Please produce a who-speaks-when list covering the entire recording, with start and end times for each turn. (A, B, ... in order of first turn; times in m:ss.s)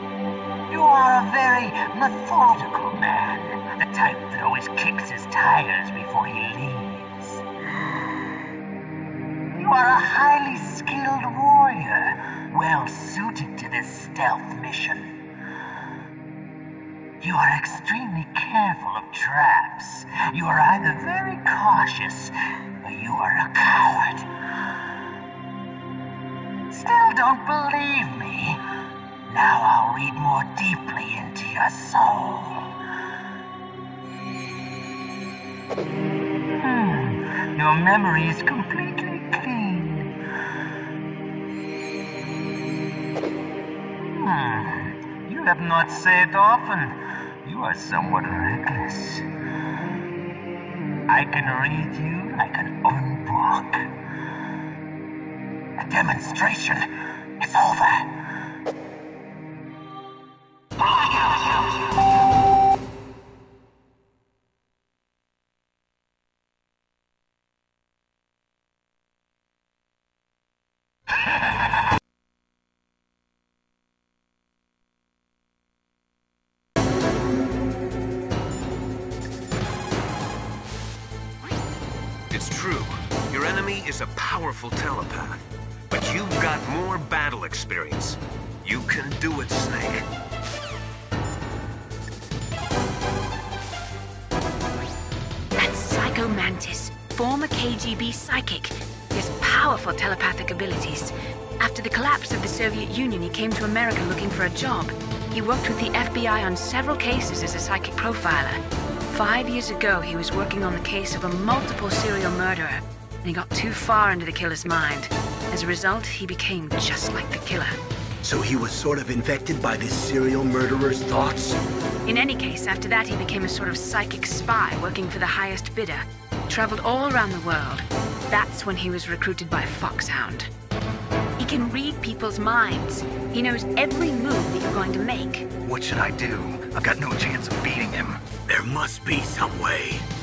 0:00.7-0:07.4 A
0:09.6-0:15.1 A
0:17.2-0:24.3 A
0:26.7-0:28.6 A
0:29.3-0:32.7 A
0:36.6-0:40.1 A
0:44.1-0:49.2 A
0:51.1-0:53.9 A
0:55.8-0:56.8 A
0:57.4-0:58.2 A
1:22.3-1:30.1 B
1:35.6-1:57.8 C
1:58.2-2:01.6 D
2:02.1-2:10.5 C
2:11.4-2:15.5 C
2:15.6-2:18.2 E
2:18.5-2:20.0 D